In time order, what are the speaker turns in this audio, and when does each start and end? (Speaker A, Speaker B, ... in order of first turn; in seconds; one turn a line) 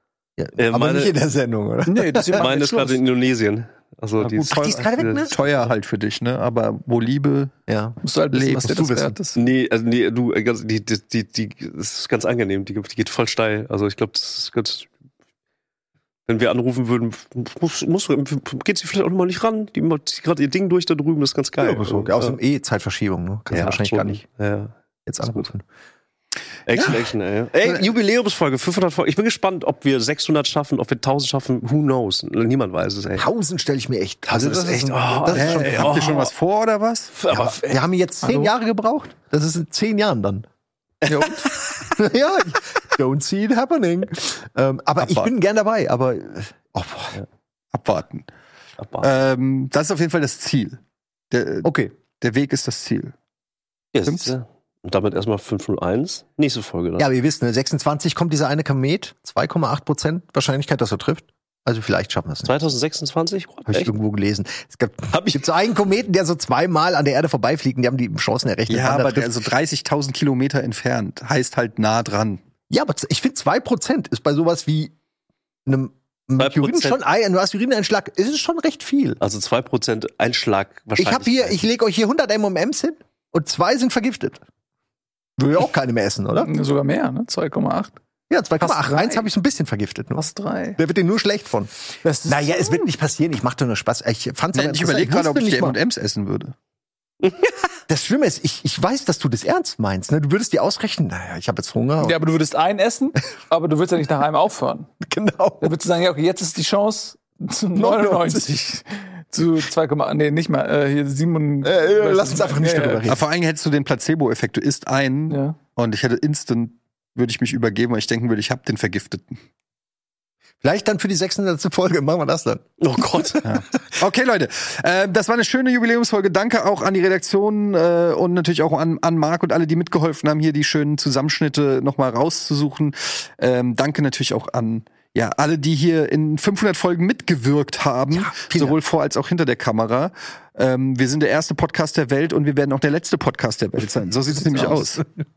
Speaker A: 0.4-2.5
Speaker B: 0.6-1.1
Speaker C: 1.9-3.0
Speaker B: 2.4-5.2
Speaker D: 4.2-7.5
Speaker A: 4.3-5.4
Speaker A: 7.7-8.0
Speaker C: 8.0-9.4
Speaker D: 8.3-8.9
Speaker A: 8.5-9.1
Speaker B: 9.4-14.9
Speaker B: 16.3-22.4
Speaker A: 21.6-24.2
Speaker B: 23.5-25.5
Speaker A: 25.1-25.6
Speaker B: 26.7-33.3
Speaker A: 33.1-36.1
Speaker B: 34.3-36.3
Speaker D: 35.3-37.2
Speaker B: 37.2-37.8
Speaker A: 37.3-40.5
Speaker C: 38.2-38.5
Speaker B: 41.0-41.4
Speaker D: 41.1-41.4
Speaker A: 41.9-47.2
Speaker D: 45.0-45.3
Speaker D: 47.7-48.3
Speaker B: 48.8-49.1
Speaker D: 49.0-50.8
Speaker D: 51.3-53.1
Speaker A: 51.6-51.9
Speaker B: 53.9-57.1
Speaker D: 54.0-54.3
Speaker A: 57.0-62.6
Speaker B: 62.5-63.9
Speaker A: 63.7-69.4
Speaker B: 65.1-65.4
Speaker D: 68.7-72.4
Speaker A: 72.7-74.9
Speaker A: 75.7-79.2
Speaker B: 76.4-77.0
Speaker B: 79.2-81.6
Speaker A: 81.0-84.4
Speaker A: 85.4-86.5
Speaker C: 86.4-87.9
Speaker A: 88.3-95.8
Speaker C: 88.6-89.3
Speaker C: 90.2-90.8
Speaker D: 92.3-92.6
Speaker D: 94.5-96.5
Speaker A: 97.9-102.2
Speaker C: 102.0-104.9
Speaker A: 105.0-105.7
Speaker C: 105.6-113.1
Speaker A: 107.8-108.5
Speaker A: 111.6-113.2
Speaker D: 113.1-119.4
Speaker C: 115.3-115.6
Speaker A: 120.6-122.7
Speaker B: 122.8-123.4
Speaker D: 123.4-145.1
Speaker A: 138.1-138.8
Speaker A: 144.3-145.0